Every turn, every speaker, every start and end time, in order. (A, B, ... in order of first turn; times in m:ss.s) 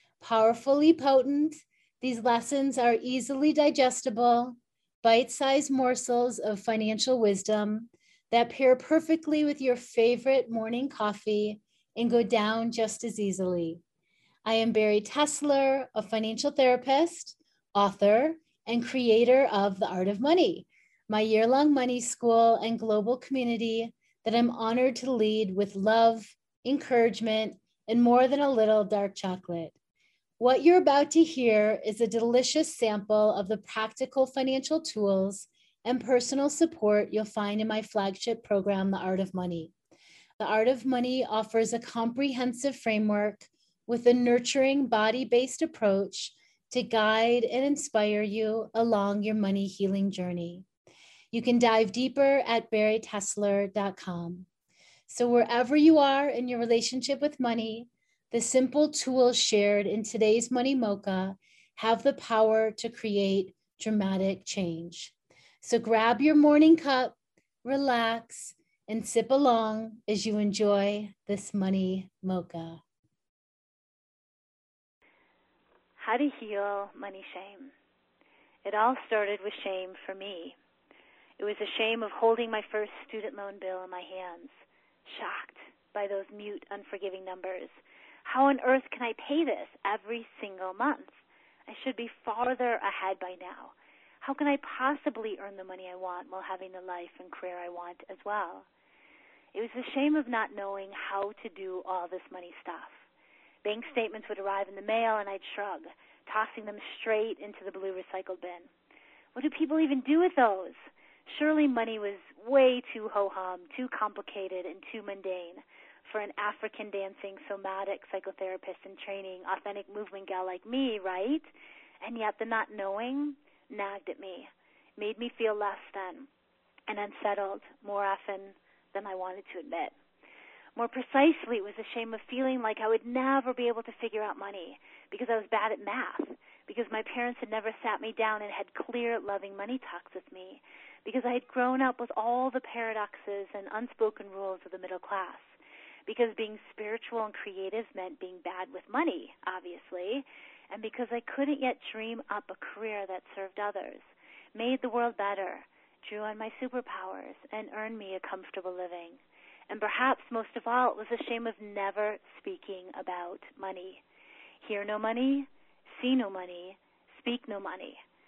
0:00.2-0:13.8 A
0:14.4-0:29.7 A
0:30.4-0:39.7 A
0:40.4-0:50.7 A
0:51.3-0:54.5 A
0:55.1-1:12.8 A
1:16.0-1:17.7 B
1:18.6-1:20.6 B
1:21.4-1:27.7 B
1:28.2-1:38.6 B
1:39.6-1:43.0 B
1:40.2-1:40.4 A
1:41.8-1:42.6 A
1:43.6-1:48.7 B
1:48.1-1:48.3 A
1:49.4-2:01.5 B
1:49.8-1:50.4 A
1:57.7-1:58.9 A
2:02.0-2:06.2 B
2:02.3-2:02.8 A
2:06.9-2:09.9 B
2:07.2-2:08.2 A
2:09.3-2:09.7 A
2:10.8-2:25.5 B
2:26.1-2:44.0 B
2:32.4-2:33.2 A
2:38.0-2:38.9 A
2:40.5-2:40.9 A
2:42.2-2:43.8 A
2:44.6-2:48.0 B